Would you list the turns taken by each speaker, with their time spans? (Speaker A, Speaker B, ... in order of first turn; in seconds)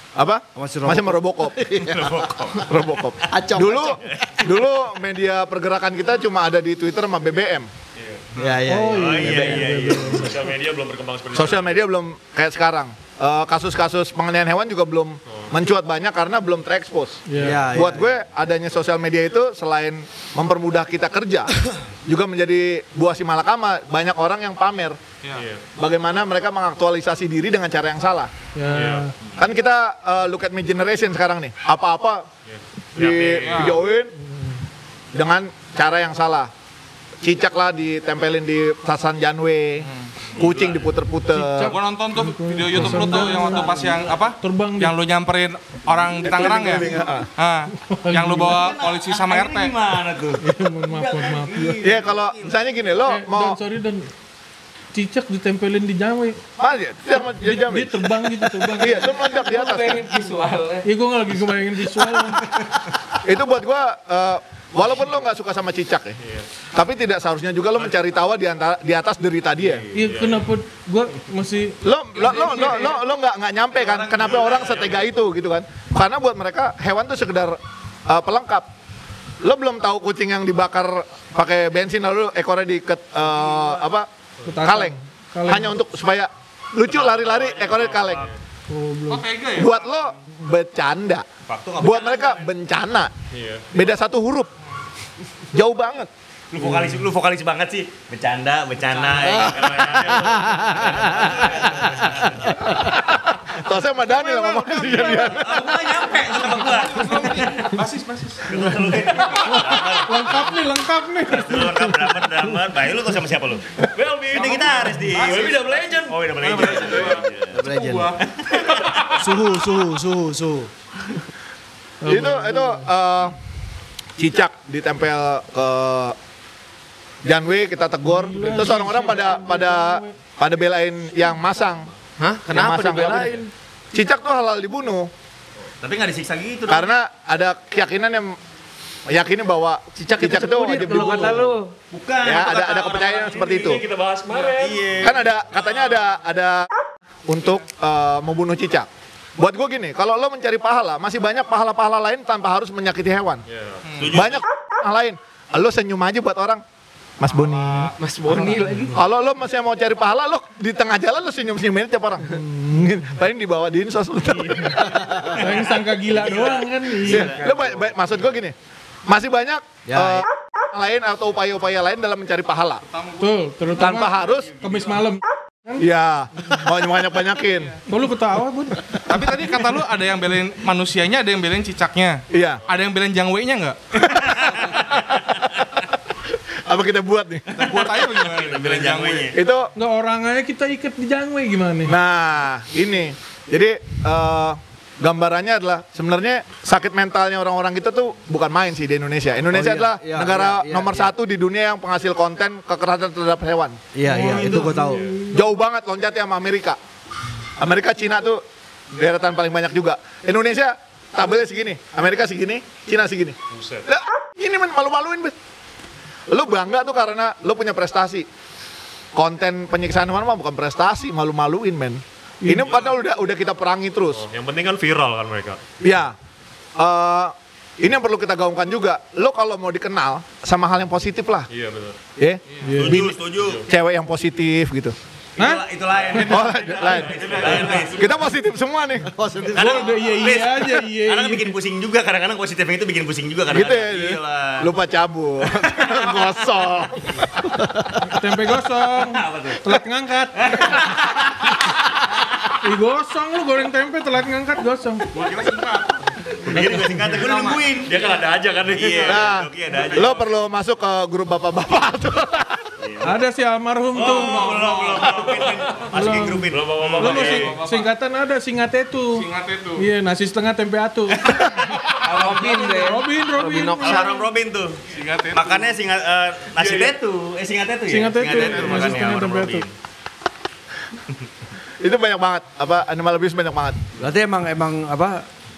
Speaker A: 0.1-1.6, 2.6-7.7, 11.3-21.5, 22.1-25.0, 25.8-28.3, 29.4-32.2, 32.9-34.1, 35.1-36.5, 37.2-41.7, 46.2-47.3, 51.8-53.6, 56.6-60.0, 63.2-66.2, 66.7-69.8, 71.8-78.7, 79.4-84.1, 84.6-88.2, 89.5-91.2, 91.8-93.1, 93.7-94.5, 95.5-96.1, 102.8-105.6, 122.0-123.3, 124.2-126.2, 127.2-131.9, 132.5-133.4, 133.9-135.1, 136.7-138.4, 139.1-141.5, 142.2-143.8, 145.0-146.7, 147.3-153.4, 154.1-156.6, 157.2-157.9, 158.9-165.1, 167.0-168.5, 169.1-172.8, 173.8-174.5, 175.8-177.7, 182.3-182.6, 184.0-184.4, 186.6-187.5, 189.3-189.7, 191.8-203.8, 205.3-206.8, 207.6-215.3, 216.3-218.2, 219.1-224.2, 225.8-226.2, 226.8-231.5, 232.2-234.9, 236.3-237.2, 237.9-239.1, 243.5-247.1, 259.0-262.6, 281.8-283.8
Speaker B: 0.5-2.3, 3.3-4.0, 8.4-10.0, 17.4-18.1, 100.4-100.8, 117.5-118.2, 119.1-120.7, 169.8-170.2, 199.5-201.1, 203.9-205.1, 239.1-239.8, 284.0-285.2
Speaker C: 1.8-2.8, 4.0-4.4, 8.9-10.3, 40.4-40.8, 43.3-43.6, 48.4-52.5, 83.3-83.8, 86.9-88.3, 91.5-92.5, 96.5-102.5, 105.1-107.8, 108.5-110.5, 111.3-113.8, 114.3-117.6, 118.6-118.8, 135.8-136.9, 141.9-143.6, 144.3-145.7, 154.0-154.4, 165.2-168.0, 187.6-189.4, 232.8-233.6, 235.3-238.1, 239.5-244.7, 248.9-249.6, 250.4-251.2, 256.4-258.1, 258.7-260.2, 262.8-263.2, 263.9-267.6, 271.2-271.5, 272.0-272.7, 273.8-274.8, 275.3-279.7
Speaker D: 8.0-8.2, 10.0-11.8, 25.3-25.6, 28.7-29.1, 32.5-33.8, 70.0-70.5, 74.5-74.8, 88.0-88.2, 93.3-93.7, 99.4-102.0, 113.9-117.2, 143.4-144.8, 153.5-153.8, 213.5-213.8, 224.1-225.6, 231.5-231.9, 233.3-233.7, 257.9-259.2, 265.1-265.9, 266.5-267.5, 276.6-276.9
Speaker E: 8.7-10.5, 17.3-17.7, 28.5-29.1, 41.3-44.9, 47.9-48.7, 50.4-51.8, 53.1-54.1, 54.9-56.4, 57.5-59.1, 60.8-62.5, 69.9-71.8, 84.4-85.7, 88.7-89.2, 104.4-105.0, 109.4-112.2, 122.0-122.8, 128.1-130.1, 158.4-158.8, 165.3-167.3, 173.2-175.8, 177.9-179.0, 189.8-191.9, 204.1-205.3, 222.4-222.7, 232.6-233.0, 235.4-236.3, 239.6-241.5, 248.0-250.7, 252.6-255.1, 263.0-264.6, 265.9-269.2, 269.8-271.5, 272.1-274.1, 277.9-279.6
Speaker F: 33.4-33.8, 39.8-40.1, 41.6-49.8, 73.9-74.8, 89.1-90.1, 98.9-99.3, 104.2-105.4, 106.0-108.6, 115.1-115.8, 116.4-118.3, 153.8-154.2, 157.4-157.9, 172.8-173.7, 177.5-177.8, 179.1-183.8, 187.5-189.3, 204.2-204.8, 236.9-238.2, 255.1-257.7, 264.0-265.3, 266.8-267.9, 269.1-269.9, 274.9-275.7, 278.2-279.1
Speaker G: 59.0-60.9, 72.5-72.9, 132.2-133.5, 140.0-141.7, 158.0-159.0, 272.0-274.3